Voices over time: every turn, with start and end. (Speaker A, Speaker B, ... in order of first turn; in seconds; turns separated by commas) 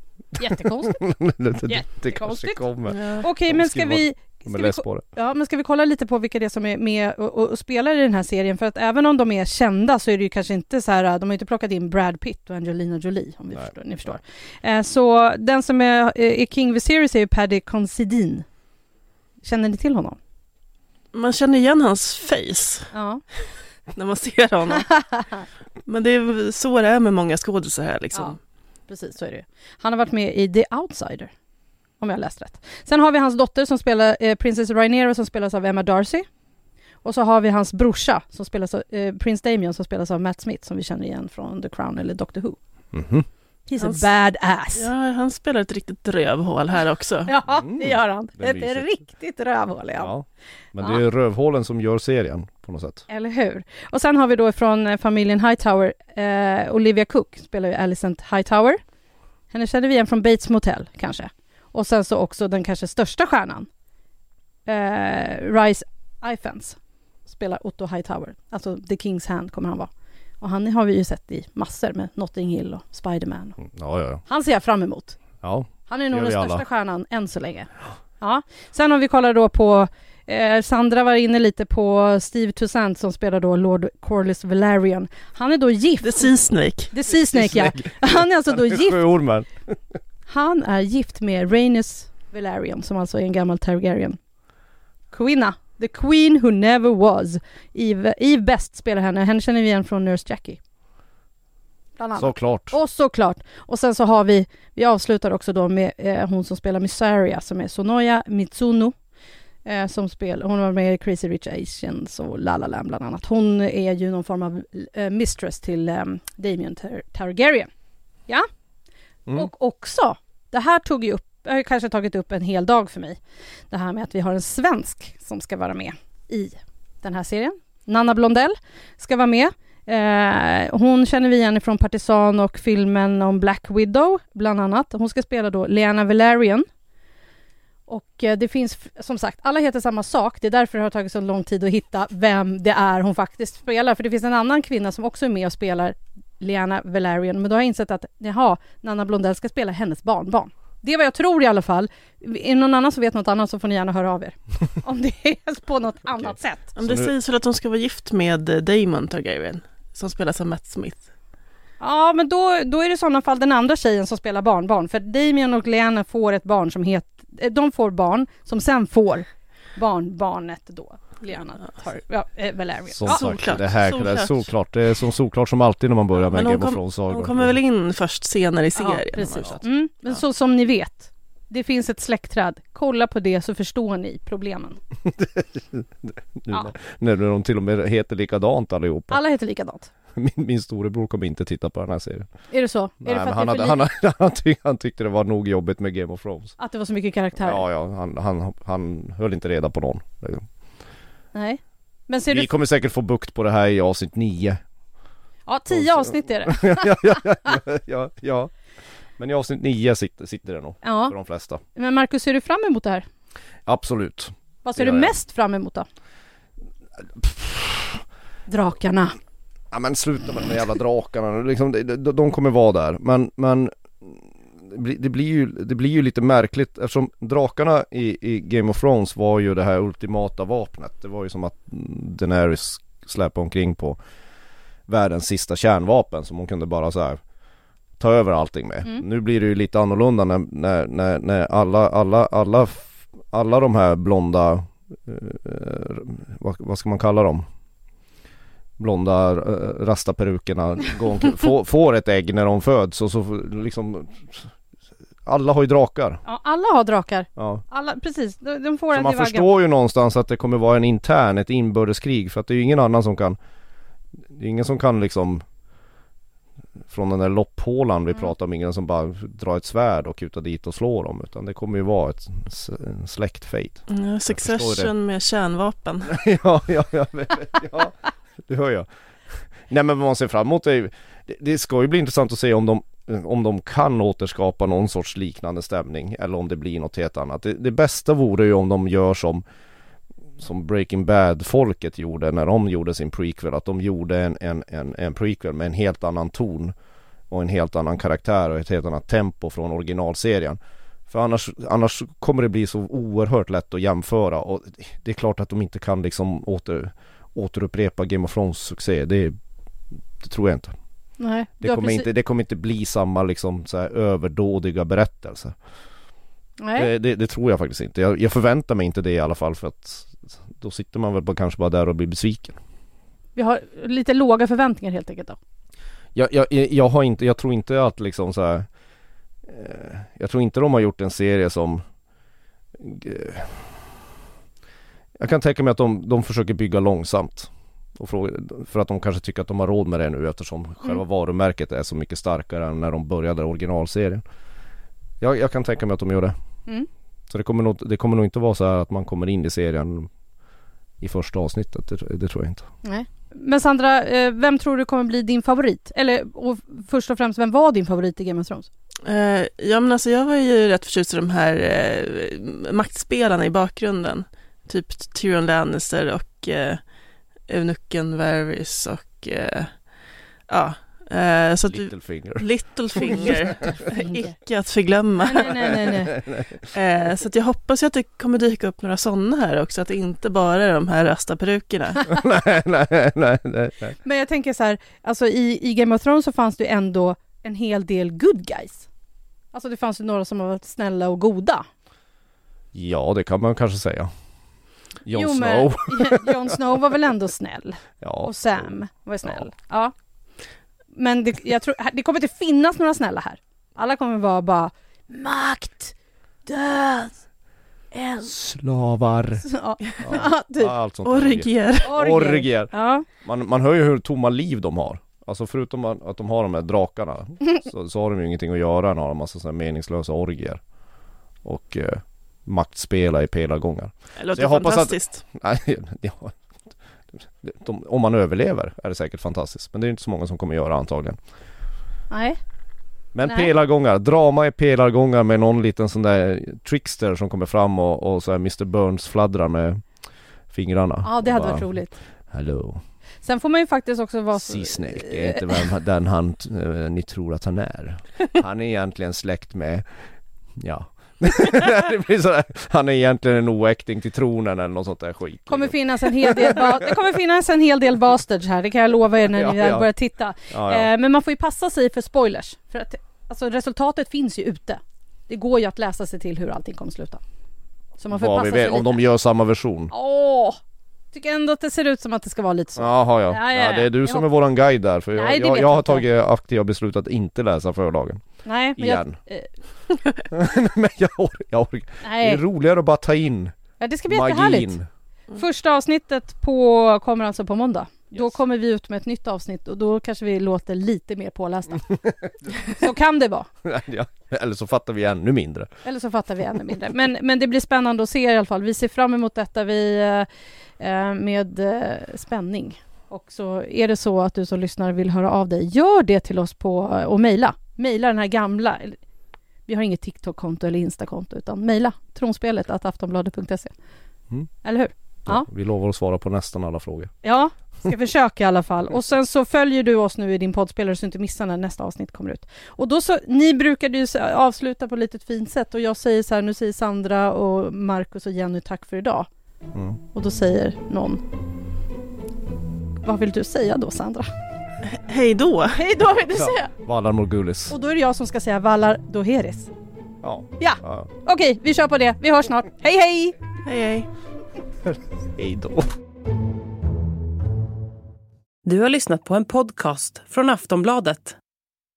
Speaker A: 0.4-1.0, Speaker B: 0.4-5.1, Speaker A: 1.7-2.6, Speaker C: 2.9-3.2, Speaker A: 3.2-18.5, Speaker A: 19.4-20.2, Speaker C: 21.1-22.9, Speaker A: 22.9-23.2, Speaker C: 23.9-25.0, Speaker A: 25.1-25.4, Speaker C: 25.9-28.4, Speaker A: 28.9-31.3, Speaker A: 32.0-36.3, Speaker A: 37.0-42.6, Speaker B: 42.9-43.3, Speaker A: 43.7-44.9, Speaker C: 43.8-44.1, Speaker C: 44.8-47.3, Speaker A: 47.3-50.1, Speaker B: 47.5-48.9, Speaker B: 50.0-53.1, Speaker A: 53.1-58.8, Speaker A: 59.5-63.7, Speaker A: 64.7-69.9, Speaker A: 70.4-73.6, Speaker B: 73.6-74.2, Speaker A: 74.3-75.2, Speaker B: 75.4-76.7, Speaker A: 75.9-86.3, Speaker C: 86.0-86.9, Speaker A: 86.9-89.1, Speaker B: 87.1-89.8, Speaker A: 90.3-94.2, Speaker A: 95.1-100.6, Speaker A: 102.0-108.9, Speaker B: 102.2-102.8, Speaker A: 109.7-117.7, Speaker A: 119.3-123.2, Speaker A: 123.7-136.7, Speaker A: 137.9-156.8, Speaker B: 156.8-157.1, Speaker C: 156.8-161.1, Speaker A: 161.8-173.3, Speaker B: 172.9-177.5, Speaker C: 173.1-174.5, Speaker C: 176.3-179.6, Speaker A: 178.8-184.8, Speaker B: 185.1-189.2, Speaker A: 189.1-189.9, Speaker B: 190.2-192.3, Speaker A: 192.5-193.8, Speaker B: 193.0-196.6, Speaker A: 196.6-197.7, Speaker B: 197.4-200.5, Speaker A: 201.3-202.5, Speaker B: 202.3-204.6, Speaker A: 205.5-207.2, Speaker B: 205.7-208.5, Speaker B: 209.2-211.6, Speaker A: 210.8-211.2, Speaker A: 211.8-213.1, Speaker B: 213.7-215.1, Speaker A: 214.7-215.9, Speaker B: 217.2-218.0, Speaker A: 218.5-219.2, Speaker B: 219.7-234.0, Speaker B: 234.9-237.2, Speaker B: 238.0-247.5, Speaker B: 248.8-254.5, Speaker B: 255.2-256.2, Speaker A: 256.2-259.5, Speaker B: 257.4-257.6, Speaker B: 258.9-263.4, Speaker B: 264.3-265.4, Speaker B: 266.9-274.9, Speaker C: 273.9-276.2, Speaker B: 276.1-278.9, Speaker B: 279.7-289.4, Speaker B: 290.4-296.8, Speaker B: 297.3-309.4, Speaker B: 310.2-310.8, Speaker A: 311.2-312.1, Speaker B: 311.6-315.6, Speaker A: 316.6-316.9, Speaker B: 316.8-322.6, Speaker A: 323.4-325.4, Speaker B: 326.1-328.7, Speaker B: 329.5-331.8, Speaker B: 332.8-333.8, Speaker B: 335.2-344.2, Speaker B: 345.2-346.4, Speaker B: 347.3-350.1, Speaker B: 351.0-352.7, Speaker A: 352.8-358.7, Speaker C: 359.1-366.8, Speaker C: 367.5-369.7, Speaker C: 370.5-375.7, Speaker B: 371.7-373.5, Speaker A: 375.2-376.2, Speaker B: 375.6-376.6, Speaker C: 376.7-382.1, Speaker B: 382.1-384.0, Speaker A: 384.0-388.9, Speaker A: 389.5-391.7, Speaker B: 392.7-394.1, Speaker B: 395.1-396.6, Speaker A: 395.1-399.9, Speaker B: 398.0-398.7, Speaker A: 400.9-405.9, Speaker A: 406.5-407.2, Speaker A: 407.9-408.3, Speaker B: 408.2-409.5, Speaker A: 409.4-410.7, Speaker B: 410.0-420.6, Speaker C: 411.1-411.9, Speaker A: 411.8-413.1, Speaker B: 421.4-426.4, Speaker C: 424.2-425.2, Speaker B: 427.1-431.2, Speaker A: 432.1-432.4, Speaker B: 433.1-439.8, Speaker B: 440.5-441.7, Speaker A: 441.0-442.0, Speaker B: 442.3-442.8, Speaker A: 443.2-445.6, Speaker B: 444.4-449.9, Speaker B: 450.6-456.9, Speaker A: 455.5-467.2, Speaker B: 459.4-459.9, Speaker B: 460.5-460.9, Speaker A: 468.0-469.0, Speaker B: 468.1-469.9, Speaker A: 469.9-470.6, Speaker A: 471.1-474.3, Speaker B: 472.8-478.2, Speaker A: 475.1-476.1, Speaker A: 478.4-479.5, Speaker B: 478.8-479.2, Speaker B: 480.3-483.6, Speaker A: 482.0-482.4, Speaker A: 483.8-484.8, Speaker B: 484.1-484.9, Speaker A: 485.3-492.0, Speaker A: 492.5-493.5, Speaker B: 493.6-495.7, Speaker A: 495.8-500.3, Speaker A: 500.8-509.0, Speaker A: 509.7-513.7, Speaker A: 514.6-515.5, Speaker B: 515.3-517.1, Speaker A: 517.2-529.3, Speaker B: 529.7-530.0, Speaker A: 530.1-531.2, Speaker A: 533.0-534.3, Speaker C: 534.9-535.8, Speaker A: 535.8-536.7, Speaker B: 536.3-537.8, Speaker A: 537.7-539.7, Speaker B: 540.2-541.1, Speaker A: 540.6-543.4, Speaker C: 543.7-544.1, Speaker B: 545.4-546.0, Speaker D: 548.6-551.4